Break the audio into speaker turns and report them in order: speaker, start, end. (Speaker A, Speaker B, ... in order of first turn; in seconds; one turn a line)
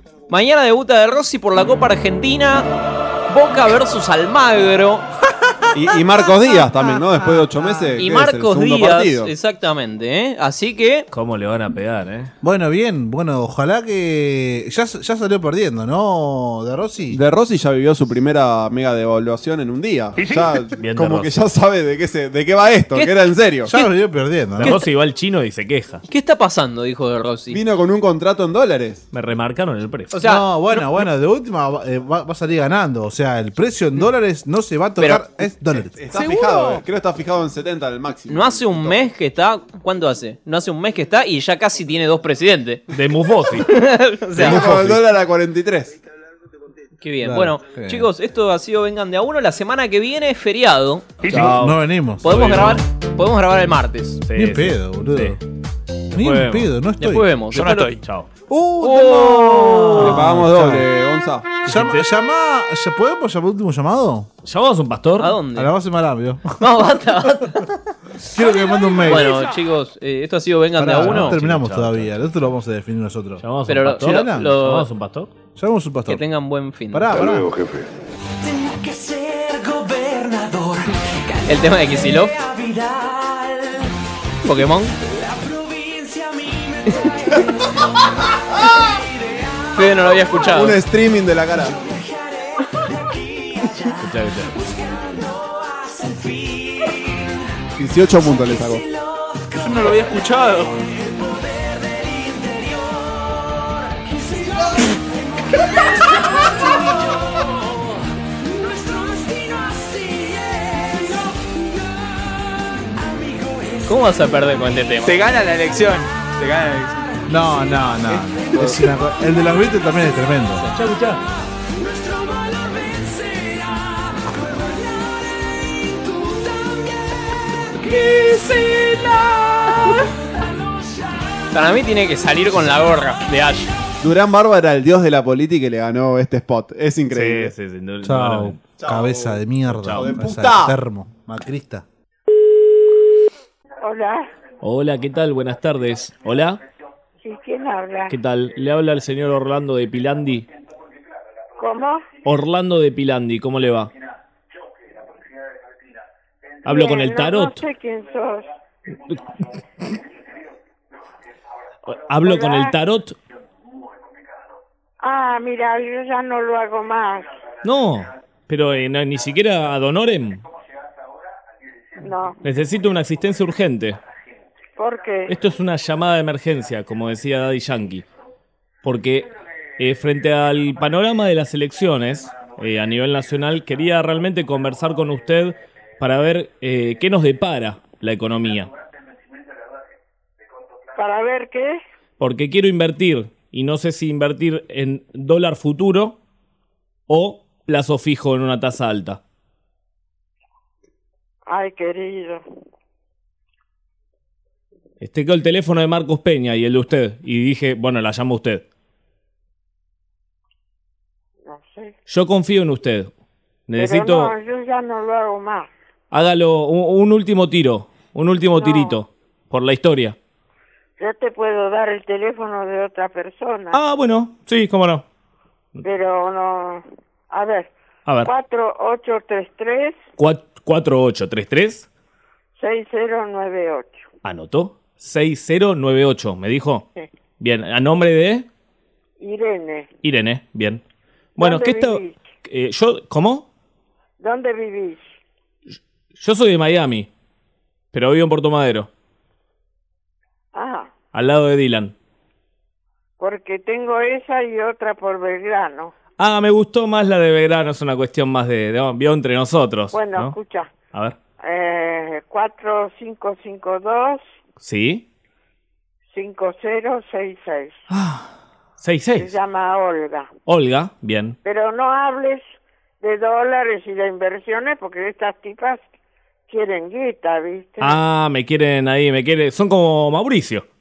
Speaker A: 0.3-2.7
Speaker A: 3.3-5.1
Speaker B: 5.7-9.3
Speaker A: 8.0-11.1
Speaker C: 11.1-12.3
Speaker D: 12.4-17.2
Speaker B: 17.1-23.7
Speaker C: 20.8-21.3
Speaker D: 23.7-24.8
Speaker C: 24.6-26.0
Speaker A: 24.6-24.9
Speaker A: 26.1-27.6
Speaker B: 27.5-29.1
Speaker C: 29.1-30.2
Speaker A: 30.1-30.4
Speaker D: 30.2-36.8
Speaker A: 35.0-35.2
Speaker B: 35.7-39.0
Speaker A: 38.3-42.9
Speaker C: 42.9-43.7
Speaker A: 43.7-44.8
Speaker C: 44.4-45.0
Speaker B: 44.4-46.0
Speaker A: 47.0-51.3
Speaker D: 47.2-48.1
Speaker C: 51.2-52.8
Speaker D: 51.3-52.7
Speaker A: 52.2-54.2
Speaker C: 54.2-55.4
Speaker D: 54.4-55.4
Speaker C: 56.1-56.7
Speaker D: 56.1-57.3
Speaker A: 57.0-57.9
Speaker E: 57.5-58.0
Speaker C: 57.6-58.3
Speaker D: 58.5-60.9
Speaker A: 58.8-60.2
Speaker B: 60.0-61.5
Speaker C: 61.7-62.1
Speaker D: 61.7-64.3
Speaker C: 64.4-65.3
Speaker A: 65.2-65.7
Speaker D: 65.5-66.7
Speaker A: 66.6-67.7
Speaker D: 68.2-69.3
Speaker A: 69.0-71.4
Speaker D: 70.8-73.5
Speaker C: 71.0-72.1
Speaker C: 73.4-75.3
Speaker A: 73.7-74.9
Speaker D: 74.0-74.5
Speaker D: 75.6-76.2
Speaker A: 76.1-77.2
Speaker D: 76.9-77.5
Speaker A: 81.5-82.4
Speaker A: 84.4-84.9
Speaker A: 89.8-90.8
Speaker B: 90.5-91.8
Speaker C: 94.0-94.5
Speaker B: 97.8-98.8
Speaker E: 99.6-100.8
Speaker A: 113.9-115.2
Speaker E: 115.0-117.0
Speaker D: 117.3-120.7
Speaker C: 120.8-121.2
Speaker A: 131.5-133.7
Speaker B: 134.0-137.5
Speaker C: 137.1-138.6
Speaker D: 138.0-141.8
Speaker B: 138.8-139.4
Speaker C: 139.7-140.1
Speaker B: 139.9-140.8
Speaker F: 143.8-144.3
Speaker C: 144.6-146.6
Speaker F: 147.2-148.2
Speaker C: 148.1-150.5
Speaker F: 151.6-152.1
Speaker C: 152.2-153.9
Speaker C: 156.7-157.7
Speaker F: 156.7-158.5
Speaker C: 161.9-163.2
Speaker F: 162.2-162.8
Speaker F: 165.0-167.3
Speaker C: 167.6-170.4
Speaker F: 172.0-172.4
Speaker C: 172.4-174.0
Speaker F: 174.8-175.3
Speaker C: 175.3-178.1
Speaker C: 178.8-179.3
Speaker C: 179.8-188.7
Speaker F: 191.0-191.8
Speaker C: 192.2-196.2
Speaker C: 197.1-199.2
Speaker F: 201.5-202.4
Speaker C: 205.0-208.6
Speaker F: 211.5-211.9
Speaker C: 212.1-213.1
Speaker C: 213.7-214.3
Speaker F: 213.8-215.7
Speaker C: 216.1-220.2
Speaker F: 218.6-219.0
Speaker F: 221.0-223.8
Speaker C: 223.7-225.1
Speaker F: 225.8-227.7
Speaker C: 228.1-228.3
Speaker F: 228.2-230.0
Speaker C: 230.2-231.9
Speaker F: 232.6-234.0
Speaker C: 234.2-236.8
Speaker C: 237.4-238.5
Speaker F: 239.2-239.9
Speaker C: 240.0-240.8
Speaker F: 241.4-242.2
Speaker C: 241.4-243.5
Speaker F: 244.2-245.0
Speaker C: 246.2-247.1
Speaker C: 247.9-248.9
Speaker F: 250.5-250.9
Speaker C: 251.1-251.9
Speaker F: 253.2-255.9
Speaker C: 256.2-260.4
Speaker F: 259.9-260.7
Speaker C: 260.9-261.2
Speaker F: 261.4-264.2
Speaker C: 264.6-265.1
Speaker F: 266.1-267.7
Speaker C: 267.9-269.4
Speaker F: 269.2-270.3
Speaker C: 270.5-271.4
Speaker F: 271.4-272.5
Speaker F: 273.0-275.9
Speaker F: 276.5-278.0
Speaker C: 277.8-280.6